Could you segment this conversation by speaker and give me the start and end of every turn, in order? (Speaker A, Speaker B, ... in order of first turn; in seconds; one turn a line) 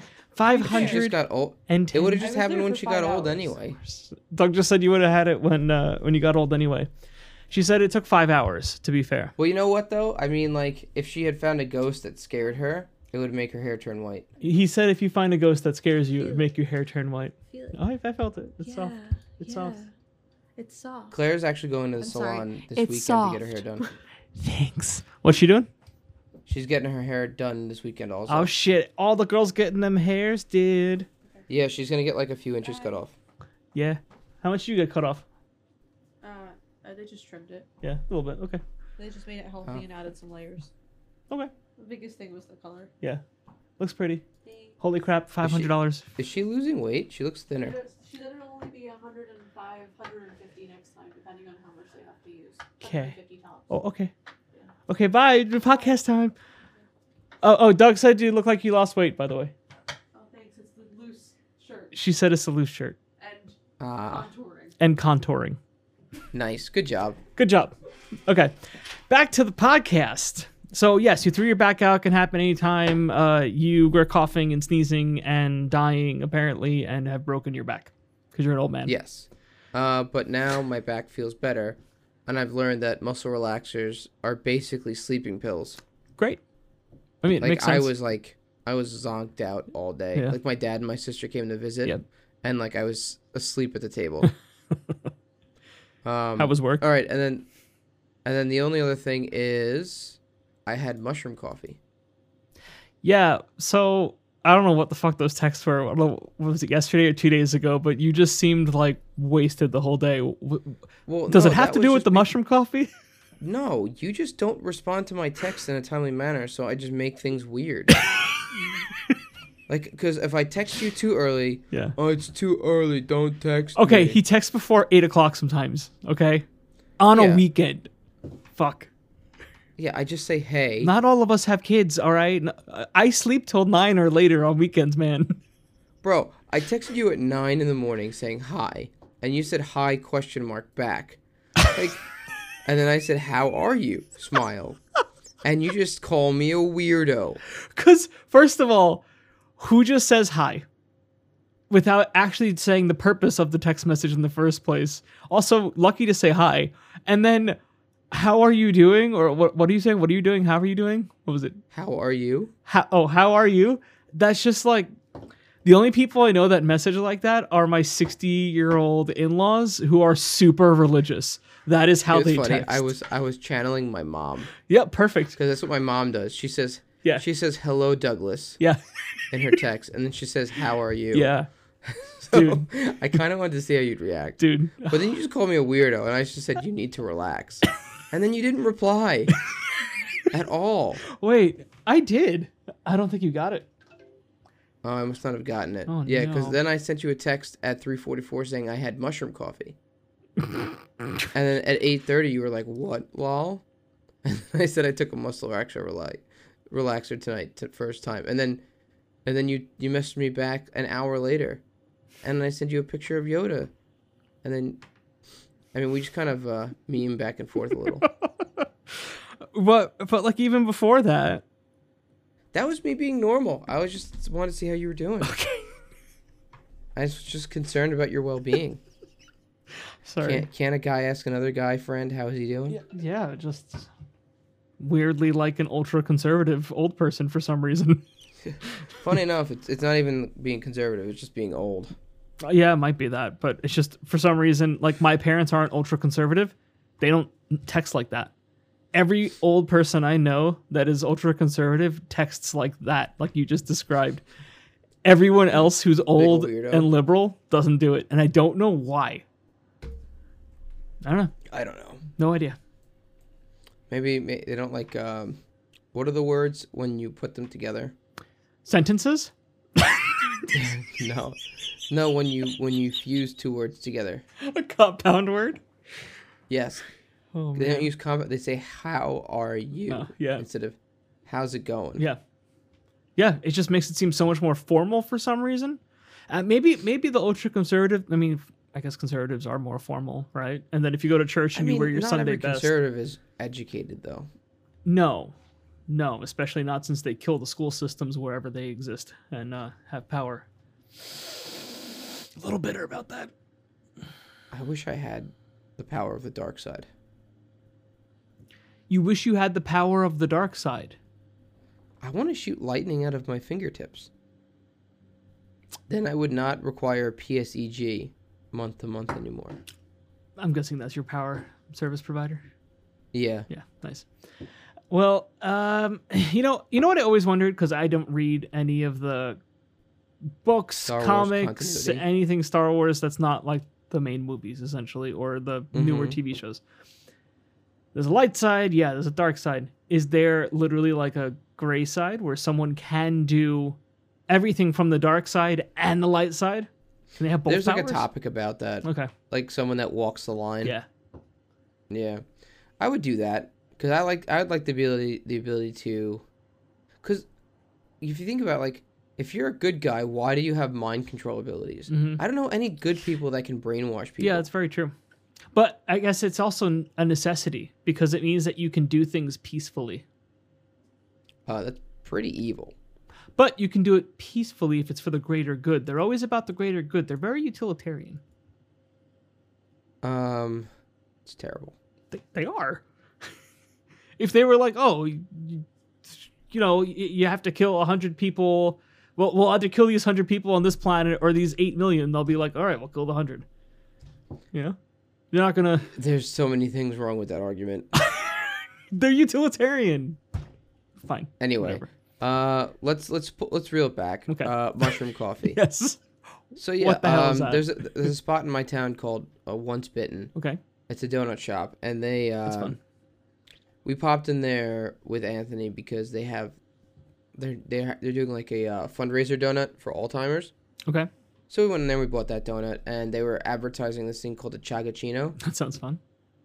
Speaker A: 0.3-1.1
Speaker B: 0.5-1.1
Speaker C: 0.5-3.8
Speaker A: 1.7-2.3
Speaker B: 2.2-3.6
Speaker A: 3.8-6.9
Speaker A: 7.5-9.3
Speaker C: 9.4-14.3
Speaker A: 14.4-19.8
Speaker B: 16.2-16.5
Speaker B: 17.5-17.8
Speaker B: 18.6-19.9
Speaker B: 20.6-21.1
Speaker C: 21.1-23.9
Speaker B: 22.0-23.9
Speaker A: 24.4-25.7
Speaker C: 26.4-28.5
Speaker A: 28.3-31.1
Speaker C: 31.5-33.1
Speaker B: 32.6-33.0
Speaker A: 33.7-35.2
Speaker B: 36.2-37.7
Speaker A: 37.8-38.6
Speaker B: 39.0-40.7
Speaker B: 41.8-42.9
Speaker A: 43.8-44.2
Speaker B: 44.4-44.8
Speaker A: 44.8-46.1
Speaker C: 45.4-47.8
Speaker B: 47.6-53.7
Speaker A: 52.8-53.1
Speaker A: 53.7-54.1
Speaker A: 54.9-56.3
Speaker A: 57.4-59.5
Speaker B: 60.1-61.9
Speaker A: 61.9-63.0
Speaker B: 63.2-64.8
Speaker C: 63.8-64.3
Speaker A: 64.8-65.6
Speaker C: 66.3-67.2
Speaker A: 67.4-67.7
Speaker A: 68.2-78.9
Speaker C: 78.8-85.8
Speaker A: 87.2-87.9
Speaker C: 87.4-94.3
Speaker C: 96.0-97.5
Speaker A: 96.4-96.8
Speaker C: 98.2-101.8
Speaker A: 103.0-110.8
Speaker C: 111.1-112.3
Speaker A: 111.3-112.9
Speaker C: 113.4-118.1
Speaker C: 119.7-124.2
Speaker A: 123.8-126.4
Speaker A: 127.0-127.9
Speaker C: 127.1-127.4
Speaker A: 128.6-128.9
Speaker C: 129.8-130.9
Speaker A: 130.8-135.4
Speaker C: 136.0-142.0
Speaker C: 142.6-144.8
Speaker C: 145.4-147.4
Speaker A: 147.5-149.0
Speaker A: 149.6-150.6
Speaker A: 151.7-157.6
Speaker A: 158.1-161.6
Speaker C: 161.7-162.5
Speaker A: 162.7-164.9
Speaker A: 165.6-172.9
Speaker C: 172.1-174.5
Speaker A: 174.7-175.3
Speaker C: 175.3-178.6
Speaker C: 179.3-181.3
Speaker A: 181.1-181.5
Speaker C: 181.8-189.4
Speaker A: 182.2-182.7
Speaker A: 184.4-185.1
Speaker C: 190.3-191.0
Speaker A: 191.1-193.7
Speaker C: 194.8-199.8
Speaker A: 195.9-196.6
Speaker C: 201.3-203.6
Speaker C: 204.2-208.6
Speaker C: 209.2-211.6
Speaker C: 212.2-213.7
Speaker C: 214.4-214.8
Speaker C: 215.7-218.1
Speaker A: 218.3-221.4
Speaker C: 222.5-225.4
Speaker A: 225.2-225.7
Speaker C: 226.9-228.8
Speaker A: 230.0-230.4
Speaker C: 230.2-232.8
Speaker A: 232.7-233.9
Speaker A: 234.8-238.0
Speaker C: 239.0-241.9
Speaker A: 242.4-248.3
Speaker A: 248.9-254.2
Speaker A: 255.0-259.2
Speaker C: 256.1-256.9
Speaker A: 261.0-261.3
Speaker C: 261.5-262.1
Speaker A: 262.2-262.6
Speaker C: 263.9-265.4
Speaker C: 265.9-267.9
Speaker A: 268.6-270.4
Speaker C: 270.5-274.2
Speaker A: 274.4-275.6
Speaker C: 276.5-276.8
Speaker A: 277.3-277.9
Speaker C: 277.5-282.1
Speaker A: 279.9-280.4
Speaker A: 283.1-292.7
Speaker C: 291.5-294.3
Speaker A: 294.8-295.3
Speaker A: 295.9-300.4
Speaker A: 302.4-303.3
Speaker C: 304.5-306.9
Speaker A: 308.9-311.0
Speaker C: 312.0-314.1
Speaker C: 315.9-319.6
Speaker A: 320.4-322.4
Speaker C: 323.1-323.5
Speaker A: 323.5-324.1
Speaker A: 324.9-329.4
Speaker A: 330.4-336.6
Speaker C: 330.8-332.0
Speaker C: 335.7-336.2
Speaker A: 337.9-348.1
Speaker C: 347.4-350.7
Speaker A: 348.8-349.1
Speaker C: 351.9-352.2
Speaker C: 352.8-356.2
Speaker C: 358.0-364.5
Speaker A: 361.9-362.2
Speaker A: 364.2-364.9
Speaker A: 365.5-370.0
Speaker C: 371.5-372.7
Speaker A: 373.4-378.2
Speaker C: 380.0-380.7
Speaker C: 381.2-381.7
Speaker A: 382.1-383.3
Speaker A: 384.2-393.4
Speaker A: 395.3-395.9
Speaker C: 395.9-397.9
Speaker A: 397.9-400.2
Speaker A: 401.0-401.9
Speaker C: 401.4-405.6
Speaker A: 404.3-406.0
Speaker C: 406.6-410.3
Speaker A: 406.8-408.1
Speaker A: 410.3-410.6
Speaker C: 410.9-412.8
Speaker A: 412.4-412.8
Speaker C: 413.8-416.6
Speaker C: 417.3-420.5
Speaker C: 421.5-425.4
Speaker A: 425.4-426.0